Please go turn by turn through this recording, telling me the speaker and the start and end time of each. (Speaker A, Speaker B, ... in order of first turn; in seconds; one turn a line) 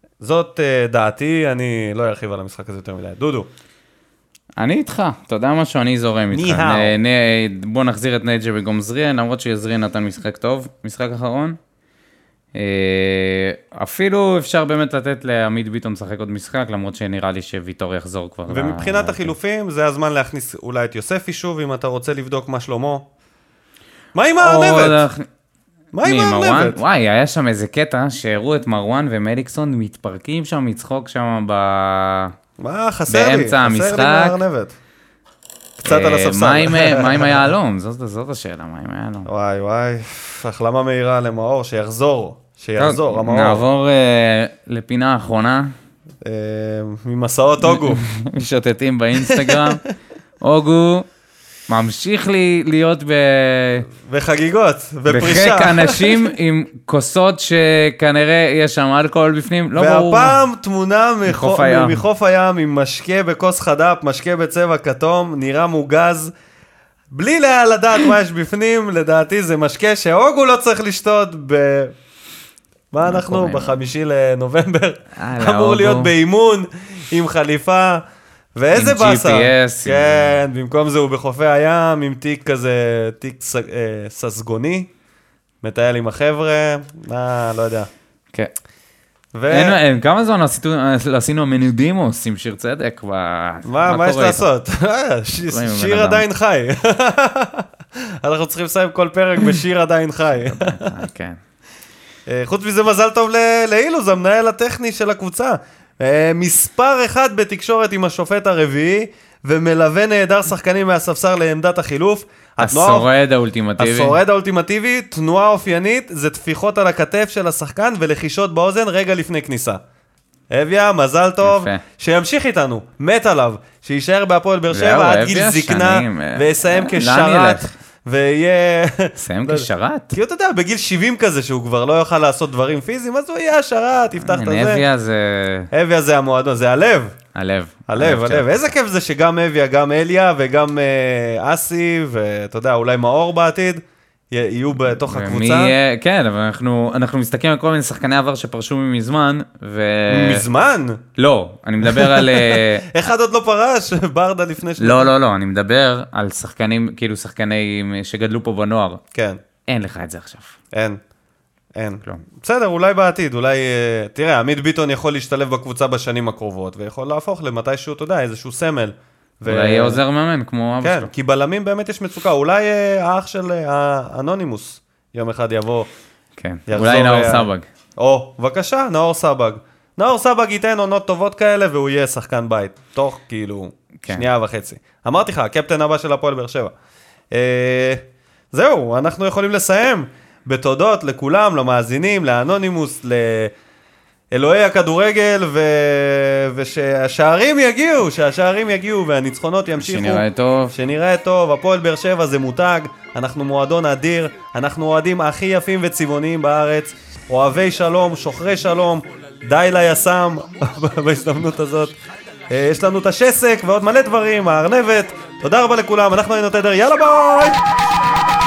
Speaker A: 0.2-3.5
Speaker B: 4.6-11.6
Speaker A: 6.3-7.0
Speaker B: 12.6-19.3
Speaker A: 18.5-23.1
Speaker A: 24.1-25.1
Speaker B: 24.4-25.3
Speaker A: 25.9-26.8
Speaker B: 26.0-32.3
Speaker A: 32.6-34.8
Speaker B: 33.1-34.4
Speaker A: 35.8-37.4
Speaker B: 35.8-39.3
Speaker A: 39.2-43.6
Speaker B: 42.8-45.7
Speaker A: 46.2-48.0
Speaker B: 47.6-49.8
Speaker A: 49.2-49.8
Speaker B: 50.4-51.1
Speaker B: 51.7-53.9
Speaker A: 54.1-56.3
Speaker B: 55.1-60.4
Speaker A: 59.8-66.3
Speaker B: 61.3-62.0
Speaker A: 67.1-71.9
Speaker A: 72.9-78.0
Speaker B: 73.0-73.8
Speaker B: 75.2-76.1
Speaker A: 78.5-84.9
Speaker B: 78.7-80.3
Speaker A: 85.6-87.9
Speaker A: 89.3-89.8
Speaker B: 89.5-94.5
Speaker A: 93.7-97.7
Speaker B: 95.5-96.3
Speaker A: 98.2-100.9
Speaker B: 100.5-101.4
Speaker A: 102.3-113.1
Speaker B: 112.6-114.2
Speaker A: 113.8-119.8
Speaker A: 120.5-134.8
Speaker B: 121.4-121.8
Speaker B: 124.7-127.7
Speaker B: 129.2-130.2
Speaker B: 134.2-135.7
Speaker A: 135.7-137.2
Speaker B: 137.3-138.7
Speaker A: 137.9-145.8
Speaker B: 145.1-150.4
Speaker A: 150.1-151.0
Speaker B: 151.2-152.8
Speaker A: 151.8-155.1
Speaker B: 154.8-159.0
Speaker A: 159.1-159.4
Speaker B: 159.7-160.5
Speaker A: 160.7-161.0
Speaker A: 161.8-170.0
Speaker B: 169.5-171.1
Speaker A: 170.8-175.9
Speaker B: 176.4-177.7
Speaker A: 176.7-186.7
Speaker A: 187.3-193.5
Speaker A: 194.3-212.0
Speaker B: 199.8-200.7
Speaker A: 212.5-217.6